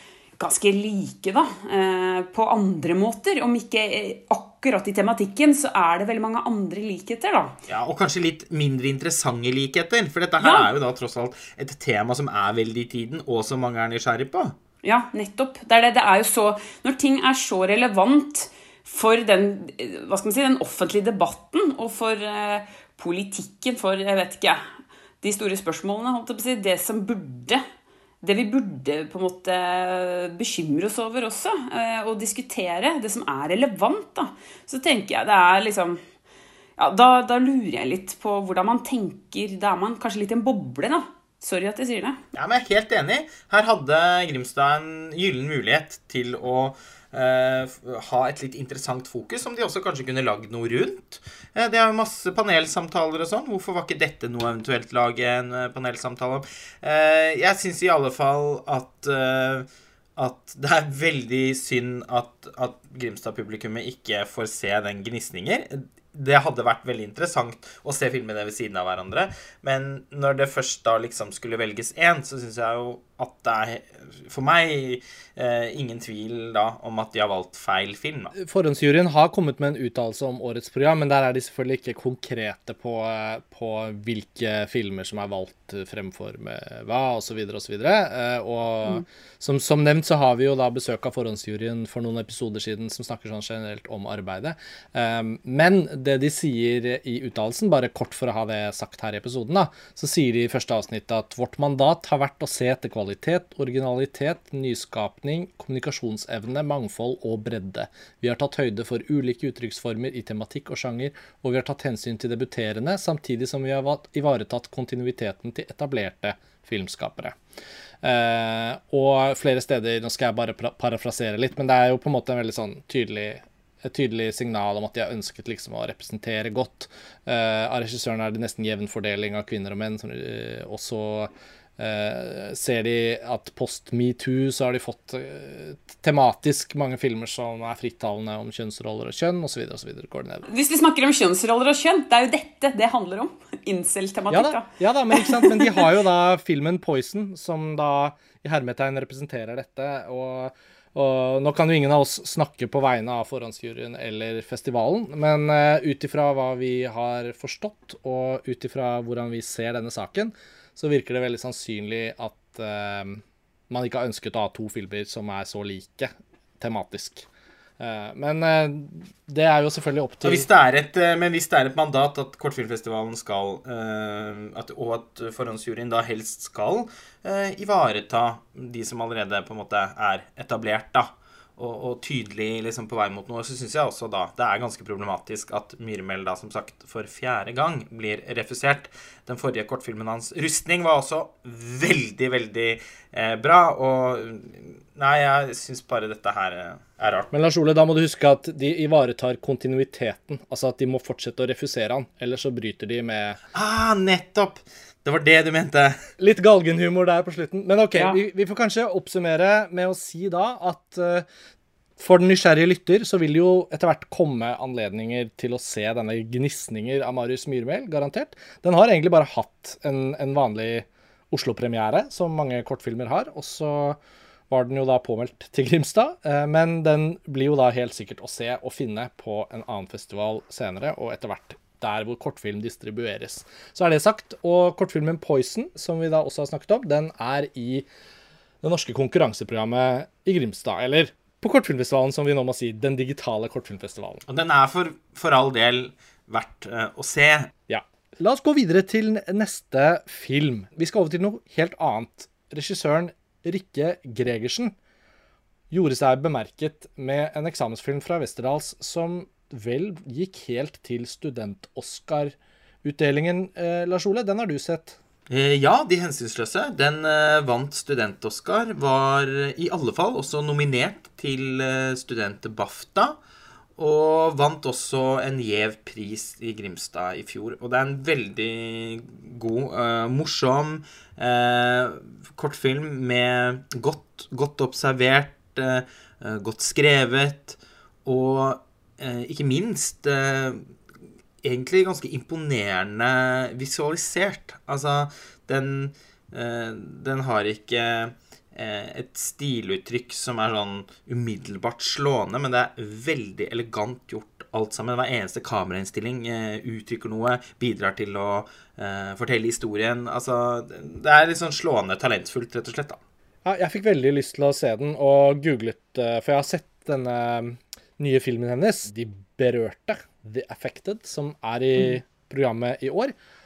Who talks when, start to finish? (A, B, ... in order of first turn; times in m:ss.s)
0:00.4-0:07.6 A
0:07.7-0:14.6 B
0:10.4-0:10.7 A
0:14.8-0:24.6 A
0:25.2-0:27.6 A
0:28.2-0:36.0 A
0:36.8-0:42.2 A
0:42.3-1:18.3 B
1:18.3-1:57.4 C
1:58.0-2:20.5 C
2:20.5-2:25.8 A
2:24.3-2:47.3 C
2:47.8-2:50.5 C
2:50.2-3:17.3 B
3:17.3-3:23.4 C
3:23.5-3:26.0 B
3:26.2-3:31.2 C
3:32.0-3:44.0 C
3:44.5-3:57.9 C
3:58.6-4:04.2 C
4:04.3-4:07.5 B
4:07.7-4:14.8 C
4:15.7-4:25.0 C
4:25.3-4:33.2 B
4:33.8-4:50.6 B
4:51.4-5:13.0 B
5:13.4-5:23.1 C